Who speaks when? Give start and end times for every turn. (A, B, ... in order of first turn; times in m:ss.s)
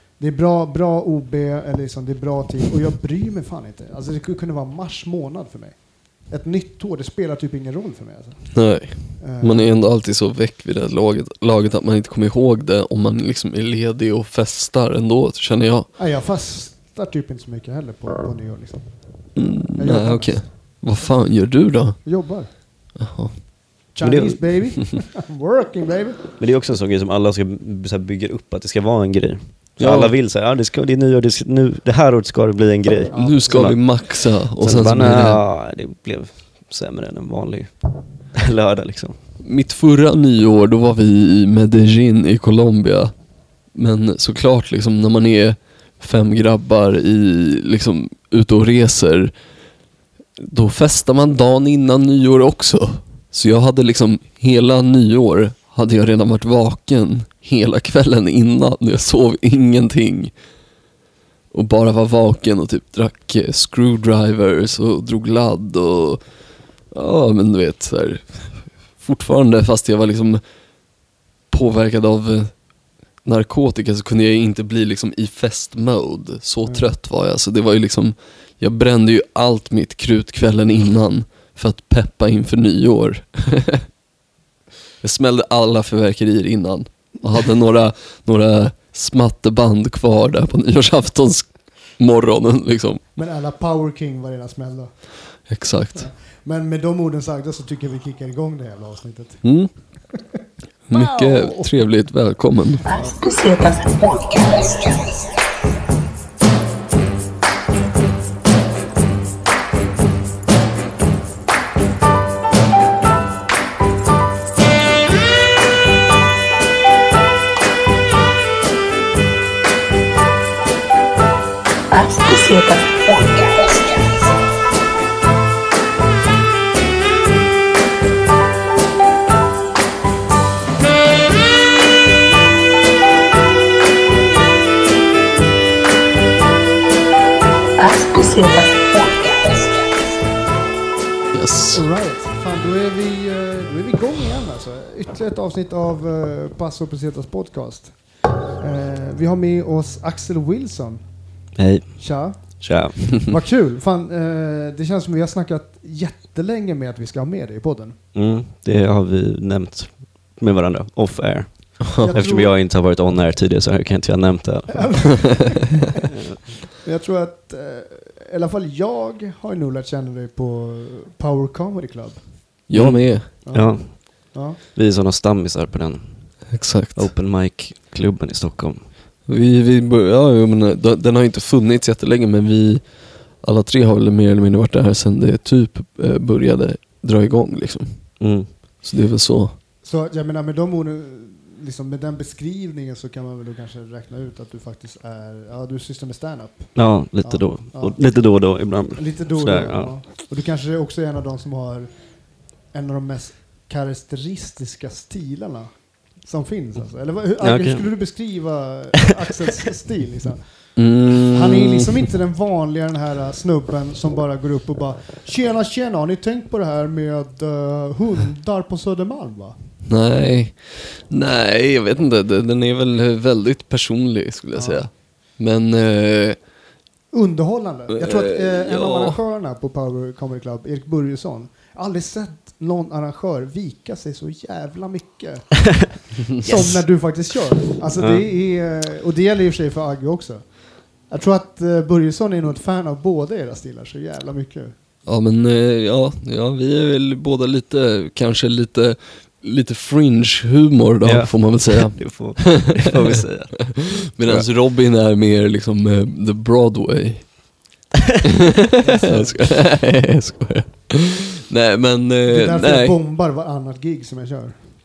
0:00.2-0:08.6 A
0:08.5-0:15.9 B
0:09.2-0:09.8 A
0:16.0-0:20.4 A
0:19.3-0:22.0 B
0:22.0-0:22.5 A
0:22.9-0:23.4 B
0:23.9-0:26.2 A
0:24.0-0:24.8 C
0:26.4-0:37.8 C
0:29.8-0:30.1 B
0:33.1-0:33.7 A
0:33.1-0:35.4 B
0:38.3-0:39.2 C
0:39.4-0:43.1 B
0:43.7-0:49.3 B
0:50.4-1:00.3 B
1:01.5-1:06.2 B
1:06.9-1:10.4 B
1:11.5-1:23.8 B
1:25.0-1:33.0 B
1:33.1-1:35.0 A
1:35.5-1:36.1 B
1:35.9-1:39.4 A
1:39.4-1:39.7 B
1:40.1-1:41.8 A
1:40.9-1:42.8 B
1:42.8-1:43.2 A
1:42.8-1:45.4 D
2:01.9-2:04.3 D
2:17.8-2:20.0 D
2:21.3-2:21.8 B
2:21.7-2:31.0 A
2:31.6-2:33.3 C
2:32.0-2:38.0 A
2:38.1-2:45.4 C
2:42.0-2:42.6 A
2:44.8-2:46.0 A
2:46.8-2:52.2 A
2:52.7-2:53.3 B
2:52.7-2:58.8 C
2:53.4-2:54.6 A
2:56.5-2:57.1 B
2:59.2-3:08.2 B
3:08.2-3:08.5 C
3:08.8-3:09.6 B
3:09.8-3:21.9 A
3:16.7-3:19.9 C
3:22.7-3:39.5 A
3:27.4-3:27.9 C
3:30.8-3:32.0 B
3:39.8-3:46.4 B
3:44.5-3:44.8 A
3:47.1-4:04.7 A
3:47.9-3:49.2 B
3:58.0-3:58.2 C
4:05.0-4:12.6 B
4:11.0-4:14.5 C
4:13.7-4:17.5 B
4:18.6-4:23.0 B
4:18.8-4:19.7 A
4:22.3-4:24.6 A